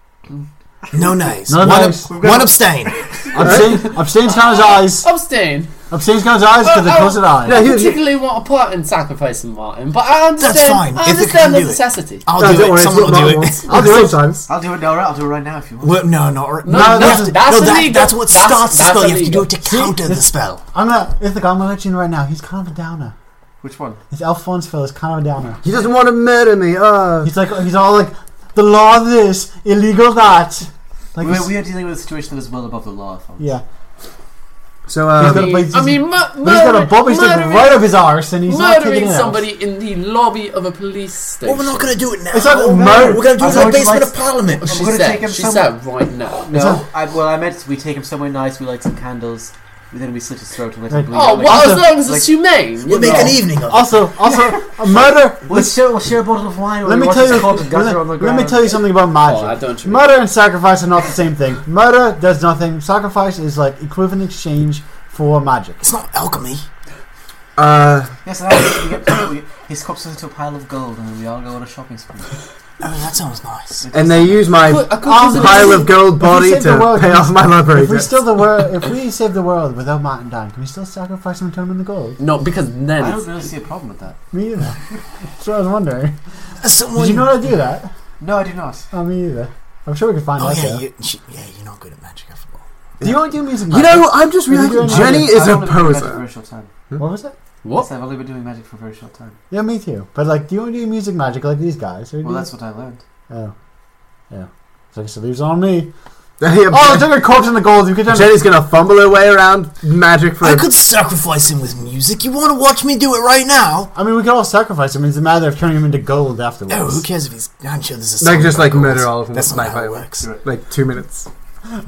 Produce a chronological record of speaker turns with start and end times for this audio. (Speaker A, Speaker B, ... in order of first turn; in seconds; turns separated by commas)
Speaker A: 0.9-3.5, Speaker B: 1.5-2.1, Speaker C: 1.6-2.5, Speaker D: 2.2-2.5, Speaker B: 3.3-5.1, Speaker C: 3.4-3.9, Speaker E: 4.2-5.7, Speaker B: 5.9-7.6, Speaker E: 6.6-12.3, Speaker C: 7.5-8.0, Speaker A: 10.4-13.8, Speaker C: 12.4-14.5, Speaker B: 13.7-14.2, Speaker D: 14.5-16.0, Speaker A: 15.8-20.6, Speaker E: 16.6-19.5, Speaker B: 16.7-17.4, Speaker B: 19.6-23.1, Speaker D: 23.6-24.0, Speaker B: 24.1-25.6, Speaker C: 25.6-27.3, Speaker B: 27.2-31.5, Speaker D: 31.2-33.5, Speaker B: 33.4-33.6, Speaker C: 34.9-35.6, Speaker B: 35.1-39.5, Speaker E: 35.2-37.9, Speaker E: 38.5-42.0, Speaker A: 41.5-44.7, Speaker B: 42.3-43.6, Speaker D: 43.4-45.8, Speaker E: 44.6-46.5, Speaker D: 46.5-52.3, Speaker B: 46.5-46.9, Speaker B: 50.9-51.9, Speaker E: 51.1-53.4, Speaker A: 52.9-54.0, Speaker B: 53.7-55.7, Speaker D: 54.3-58.8, Speaker B: 56.8-65.8, Speaker E: 59.1-60.2, Speaker A: 65.8-66.7, Speaker C: 67.6-68.1, Speaker D: 68.2-72.4, Speaker A: 72.8-73.9, Speaker D: 73.8-74.7, Speaker C: 73.9-78.2, Speaker E: 74.6-75.9, Speaker B: 75.0-82.2, Speaker E: 82.2-83.2, Speaker D: 83.0-84.2, Speaker B: 84.3-84.8, Speaker B: 85.4-86.2, Speaker A: 86.6-87.3, Speaker B: 87.0-87.9, Speaker D: 88.2-88.9, Speaker B: 88.9-90.8, Speaker A: 90.4-92.6, Speaker C: 93.0-96.2, Speaker B: 93.0-95.3, Speaker D: 94.7-96.7, Speaker B: 97.0-97.3, Speaker E: 97.6-97.9, Speaker D: 97.7-99.4, Speaker B: 99.5-102.5, Speaker D: 102.2-103.0, Speaker B: 103.3-103.5, Speaker B: 104.3-105.9, Speaker C: 106.4-107.3, Speaker B: 106.7-108.4, Speaker C: 108.1-110.7, Speaker A: 110.4-113.9, Speaker B: 114.0-117.0, Speaker A: 116.7-120.3, Speaker C: 118.2-121.3